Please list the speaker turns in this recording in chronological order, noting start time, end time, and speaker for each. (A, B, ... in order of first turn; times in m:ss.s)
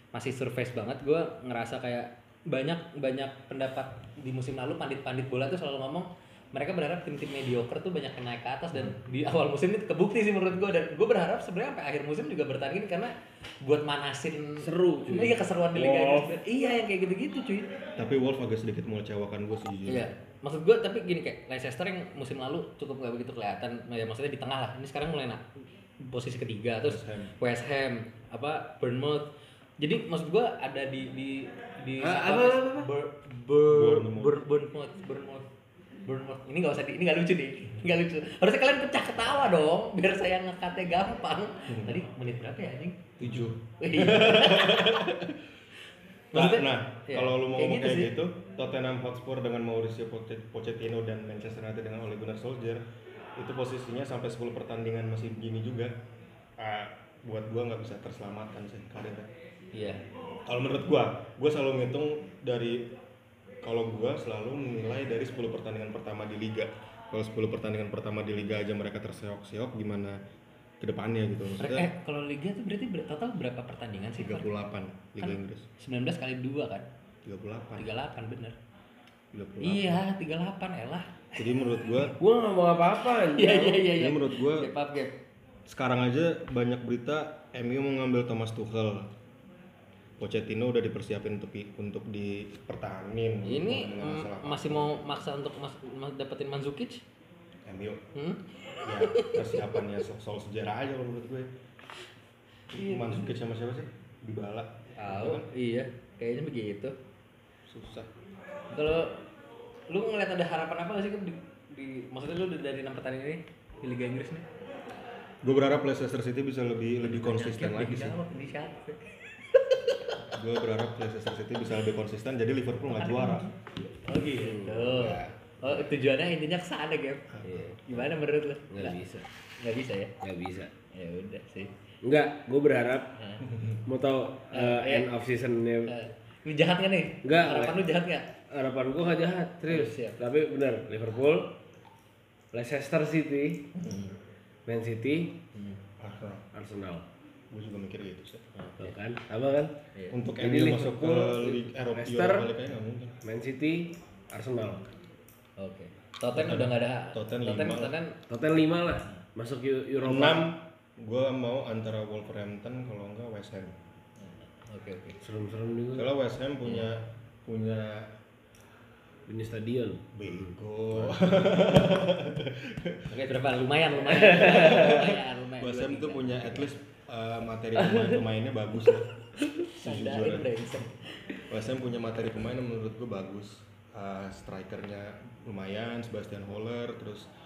0:00.1-0:17.7 A
0:14.6-0:16.4 B
0:18.0-0:20.1 C
0:19.9-0:25.5 A
0:26.0-0:35.4 A
0:26.8-0:27.3 C
0:32.0-0:32.9 B
0:33.7-0:34.4 C
0:36.0-0:44.9 A
0:41.7-0:42.0 C
0:43.2-0:45.4 C
0:46.3-0:48.1 A
0:46.3-0:52.8 C
0:53.4-0:55.9 C
0:56.6-0:59.3 C
0:59.7-1:00.0 A
1:00.4-1:02.9 C
1:03.6-1:10.2 C
1:10.8-1:11.9 C
1:11.6-1:14.5 A
1:14.2-1:15.7 C
1:15.2-1:16.9 A
1:17.2-1:17.9 C
1:17.8-1:18.5 A
1:19.3-1:20.0 C
1:19.6-1:21.1 A
1:21.3-1:22.2 C
1:22.2-1:23.9 B
1:23.3-1:25.2 A
1:23.9-1:24.7 C
1:25.7-1:29.1 C
1:30.2-1:35.0 C
1:33.4-1:37.0 A
1:37.6-1:38.0 C
1:38.1-1:39.8 A
1:38.8-1:41.5 C
1:42.7-1:45.5 C
1:42.8-1:43.2 A
1:45.0-1:46.9 A
1:47.7-1:48.1 C
1:48.7-1:49.2 A
1:49.9-1:54.4 A
1:55.4-1:58.2 C
1:57.0-1:59.8 A
2:00.2-2:03.5 C
2:02.9-2:03.5 A
2:04.0-2:09.0 A
2:04.4-2:05.1 B
2:04.9-2:05.3 C
2:07.3-2:08.1 C
2:07.4-2:07.8 B
2:08.7-2:09.3 B
2:09.6-2:10.1 A
2:10.2-2:10.7 B
2:10.9-2:11.7 A
2:12.0-2:13.1 B
2:13.2-2:13.4 A
2:13.8-2:15.9 B
2:14.5-2:15.1 A
2:15.8-2:18.3 A
2:17.2-2:17.8 B
2:18.5-2:21.6 B
2:19.7-2:20.2 A
2:22.5-2:23.7 B
2:23.8-2:24.1 A
2:24.7-2:25.4 B
2:25.5-2:25.8 A
2:26.0-2:26.5 C
2:26.5-2:27.0 B
2:27.5-2:28.9 C
2:28.8-2:29.7 B
2:30.1-2:33.2 C
2:30.4-2:32.5 B
2:33.2-2:34.9 B
2:35.6-2:38.2 A
2:36.3-2:37.9 C
2:38.3-2:40.5 B
2:40.0-2:43.8 C
2:44.2-2:45.2 A
2:45.2-2:46.1 B
2:45.9-2:48.1 C
2:49.3-2:50.0 B
2:50.1-2:53.1 C
2:51.0-2:51.6 B
2:53.1-2:56.7 A
2:54.1-2:55.1 B
2:54.2-2:59.1 C
2:59.4-3:01.4 A
2:59.7-3:00.7 C
3:01.5-3:07.3 C